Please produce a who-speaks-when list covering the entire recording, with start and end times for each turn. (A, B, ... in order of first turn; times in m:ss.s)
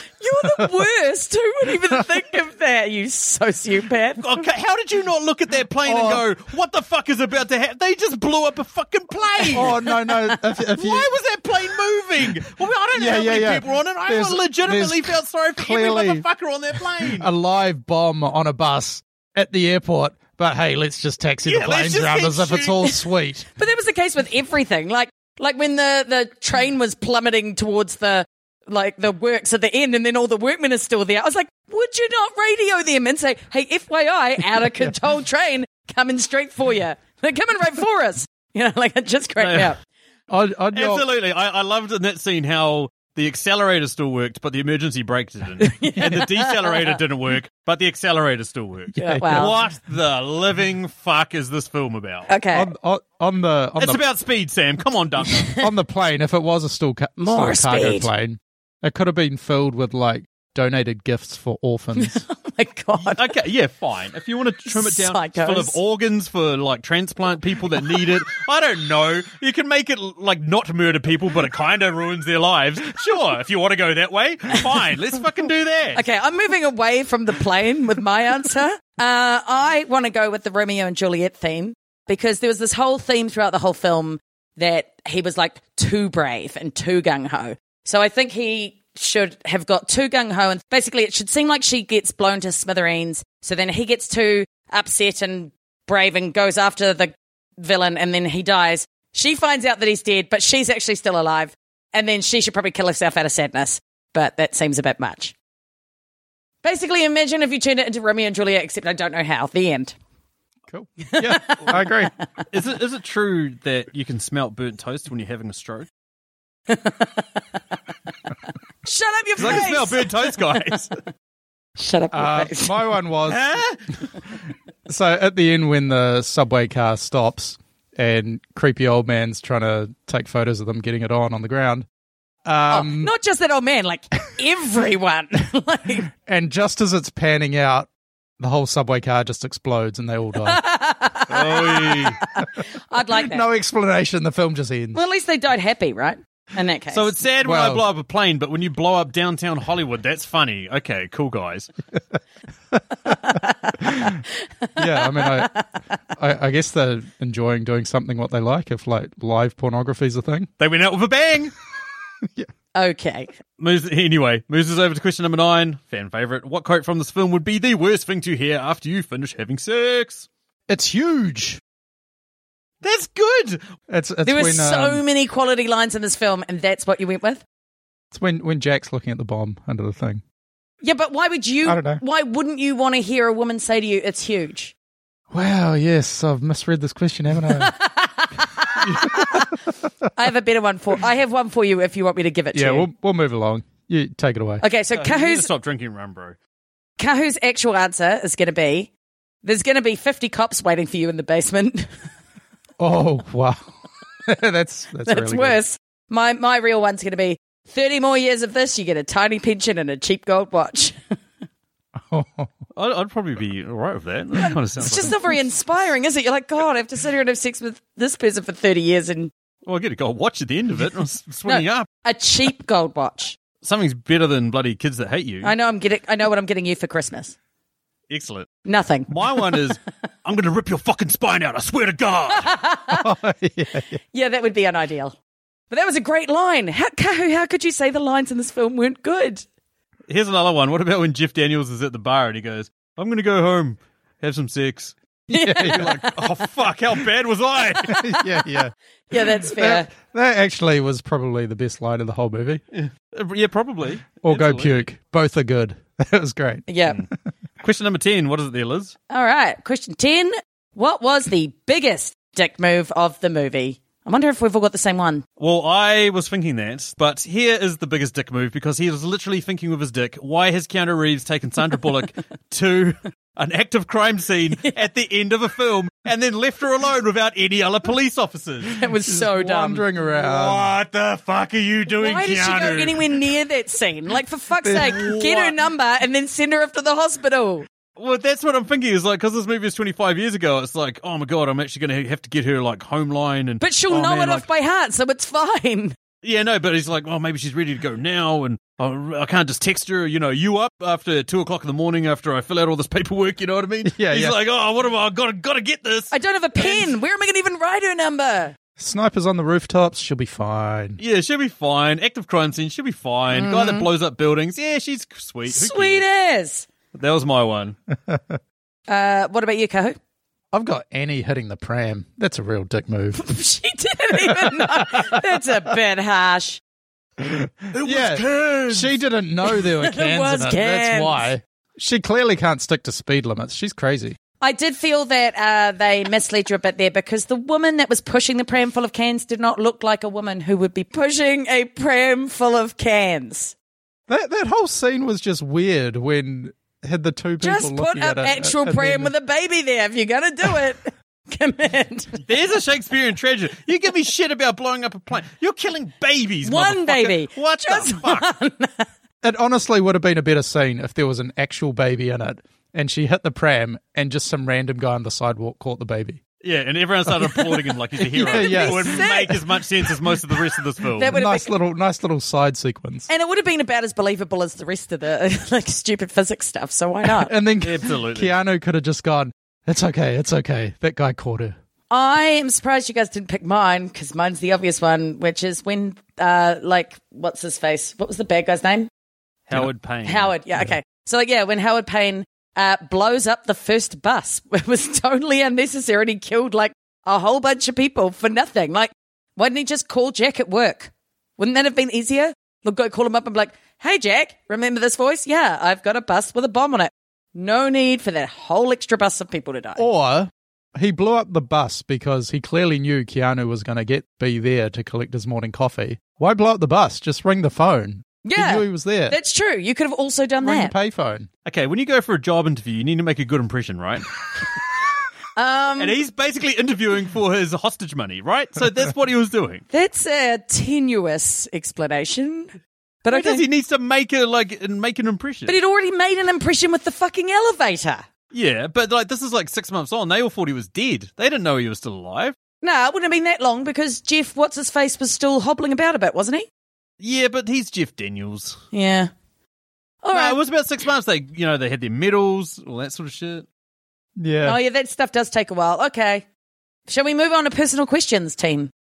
0:00.2-0:04.2 A
0:04.2-0:09.8 B
0:05.8-0:06.2 C
0:09.4-0:10.4 A
0:09.5-0:11.1 C
0:10.8-0:17.3 B
0:13.0-0:16.2 C
0:17.1-0:23.5 C
0:21.5-0:23.0 B
0:23.6-0:39.8 A
0:39.4-0:39.7 B
0:40.3-0:41.1 C
0:40.7-0:52.3 B
0:45.6-0:47.0 A
0:49.0-0:49.5 A
0:49.0-0:49.6 C
0:52.3-0:52.7 A
0:52.5-0:54.0 C
0:53.8-0:55.6 B
0:55.3-0:55.7 A
0:55.5-1:02.2 C
0:57.2-0:58.1 A
1:02.0-1:03.3 A
1:03.1-1:16.0 B
1:04.7-1:05.8 A
1:15.9-1:45.4 A
1:46.6-1:50.0 A
1:50.7-1:52.1 C
1:51.0-1:52.4 A
1:52.5-1:55.9 B
1:56.7-1:57.4 A
1:58.8-2:00.4 A
1:59.4-2:00.9 B
2:01.8-2:02.8 A
2:02.1-2:03.4 C
2:03.3-2:03.8 B
2:04.9-2:11.9 C
2:12.4-2:13.1 C
2:12.7-2:16.1 A
2:16.2-2:20.6 C
2:20.4-2:23.4 A
2:21.3-2:22.2 B
2:23.2-2:25.0 C
2:24.9-2:27.1 A
2:26.9-2:31.7 B
2:27.4-2:27.8 C
2:32.7-2:34.2 C
2:33.1-2:35.7 A
2:34.8-2:35.6 C
2:36.1-2:40.5 C
2:40.6-2:41.5 B
2:42.7-2:43.3 A
2:43.6-2:50.3 B
2:50.7-2:51.6 C
2:52.8-2:53.6 B
2:53.9-2:55.0 C
2:54.2-2:57.4 A
2:58.1-3:00.2 C
3:00.8-3:04.7 A
3:01.7-3:02.0 C
3:05.3-3:07.7 C
3:07.5-3:09.6 A
3:08.8-3:09.5 C
3:10.1-3:12.9 A
3:12.5-3:14.6 C
3:14.6-3:15.5 A
3:15.0-3:16.4 B
3:17.0-3:18.9 A
3:19.4-3:21.9 A
3:22.8-3:25.6 C
3:25.0-3:31.0 A
3:32.1-3:32.5 C
3:32.8-3:35.2 B
3:34.4-3:39.3 A
3:39.7-3:41.9 B
3:41.5-3:43.4 A
3:43.6-3:45.5 B
3:45.4-3:47.4 A
3:48.1-3:48.5 B
3:48.7-3:49.6 A
3:49.1-3:52.5 B
3:52.3-3:53.1 A
3:52.9-3:54.0 C
3:54.1-3:55.2 A
3:55.7-3:59.4 A
4:00.1-4:05.0 B
4:05.3-4:06.2 A
4:05.3-4:06.0 C
4:05.6-4:08.0 B
4:07.8-4:08.4 A
4:07.9-4:12.6 C
4:09.1-4:09.9 A
4:12.7-4:14.8 B
4:14.2-4:16.7 C
4:16.7-4:17.0 A
4:17.6-4:19.0 B
4:19.1-4:25.2 A
4:25.4-4:38.8 B
4:38.8-4:39.8 A
4:39.1-4:40.6 C
4:40.1-4:43.2 B
4:41.9-4:47.7 A
4:44.6-4:45.0 C
4:44.8-4:45.6 B
4:48.0-4:54.4 B
4:53.6-4:56.0 A
4:56.2-5:06.9 B
5:03.9-5:04.4 C
5:06.1-5:08.6 A
5:08.8-5:11.0 C
5:11.0-5:16.0 B
5:13.3-5:13.9 A
5:15.5-5:16.7 A
5:16.9-5:17.8 B
5:17.9-5:18.4 C
5:18.9-5:20.0 A
5:20.5-5:23.2 C
5:23.2-5:26.6 A
5:24.2-5:25.2 C
5:27.2-5:34.2 C
5:27.7-5:29.0 B
5:29.8-5:31.3 A
5:34.4-5:43.6 A
5:44.1-5:49.1 C
5:47.4-5:52.2 A
5:52.2-5:58.3 B
5:56.4-5:58.9 A
5:59.2-6:06.2 C
6:06.4-6:11.2 B
6:07.3-6:07.6 A
6:08.1-6:09.5 A
6:08.2-6:09.1 C
6:11.0-6:11.5 A
6:11.1-6:13.1 C
6:13.1-6:17.3 A
6:17.1-6:21.6 C
6:17.6-6:18.4 B
6:21.9-6:28.9 A
6:29.5-6:30.3 B
6:30.0-6:49.8 A
6:49.8-6:59.2 C
6:58.2-7:00.7 A
7:00.4-7:01.3 C
7:01.5-7:04.1 B
7:05.4-7:06.0 A
7:05.8-7:09.6 B
7:09.7-7:13.4 A
7:13.1-7:15.6 B
7:15.5-7:18.0 A
7:18.3-7:22.4 B
7:22.6-7:26.5 A
7:27.0-7:28.6 B
7:28.7-7:29.1 A
7:30.0-7:30.4 A
7:30.1-7:33.5 B
7:34.2-7:34.6 C
7:34.4-7:36.2 A
7:36.9-7:38.7 A